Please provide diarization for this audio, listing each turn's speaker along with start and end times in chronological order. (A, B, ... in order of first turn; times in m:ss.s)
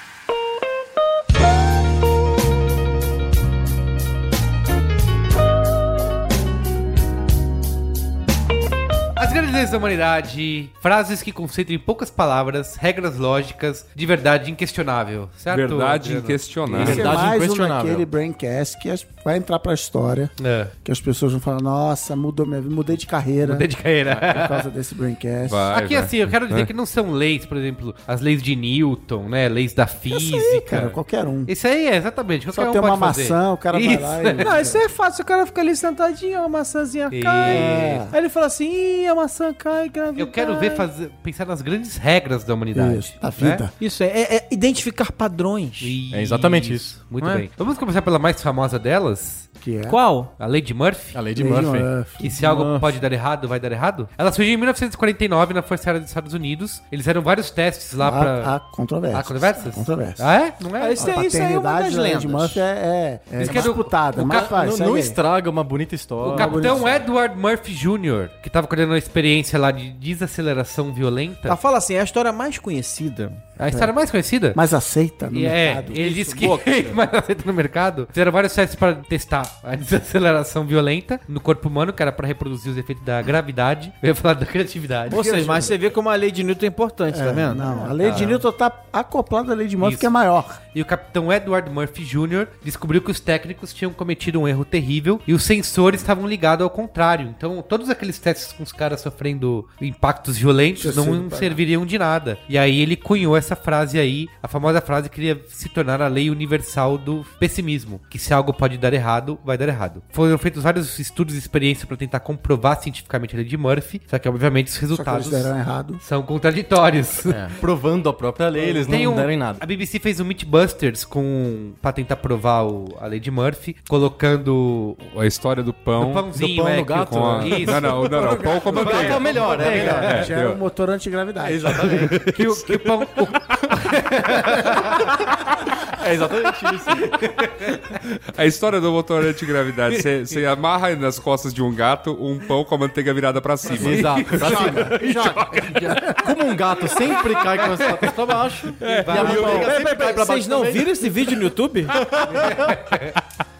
0:09.2-0:16.8 A
0:15.5-0:17.2 B
0:16.7-0:18.0 C
0:16.7-0:25.7 D
0:20.4-0:20.7 A
0:23.4-0:24.6 A
0:25.4-0:26.7 B
0:25.7-0:34.5 A
0:30.1-0:31.5 D
0:32.5-0:34.8 D
0:34.4-0:40.9 E
0:37.1-0:38.1 A
0:37.4-0:38.1 D
0:40.2-0:43.6 A
0:42.7-0:43.7 D
0:43.8-0:46.0 E
0:45.8-0:49.5 A
0:46.1-0:47.1 C
0:49.6-0:50.0 D
0:49.8-0:50.3 E
0:50.4-0:51.2 A
0:51.1-0:51.9 C
0:51.3-0:52.2 D
0:52.2-0:58.5 A
0:52.3-0:53.0 E
0:58.0-1:00.3 D
0:59.1-1:01.1 A
1:00.8-1:02.6 E
1:01.0-1:05.2 D
1:03.4-1:04.5 A
1:04.2-1:06.8 C
1:06.2-1:11.6 A
1:06.2-1:07.0 D
1:11.4-1:13.4 E
1:13.6-1:14.6 A
1:13.7-1:13.9 D
1:14.5-1:16.6 D
1:15.3-1:25.2 A
1:16.4-1:16.9 E
1:25.1-1:25.8 D
1:25.1-1:28.0 E
1:27.1-1:30.6 D
1:28.0-1:28.4 A
1:29.8-1:30.1 A
1:30.7-1:57.5 A
1:40.8-1:41.6 D
1:54.9-1:56.0 D
1:57.3-1:59.6 C
1:58.6-1:58.9 D
1:58.9-2:05.1 A
2:05.1-2:06.3 B
2:06.0-2:08.0 A
2:06.3-2:10.3 C
2:06.9-2:10.6 B
2:08.3-2:12.1 D
2:08.7-2:10.3 A
2:11.5-2:12.2 C
2:11.6-2:15.5 A
2:11.9-2:12.9 B
2:15.9-2:17.2 C
2:16.8-2:18.0 A
2:18.3-2:26.2 B
2:19.9-2:20.4 A
2:23.7-2:25.0 C
2:23.8-2:24.8 A
2:24.6-2:25.5 D
2:26.0-2:31.4 C
2:27.1-2:28.1 A
2:28.7-2:29.7 A
2:28.8-2:29.7 B
2:29.2-2:32.1 E
2:31.9-2:32.8 C
2:32.2-2:33.2 A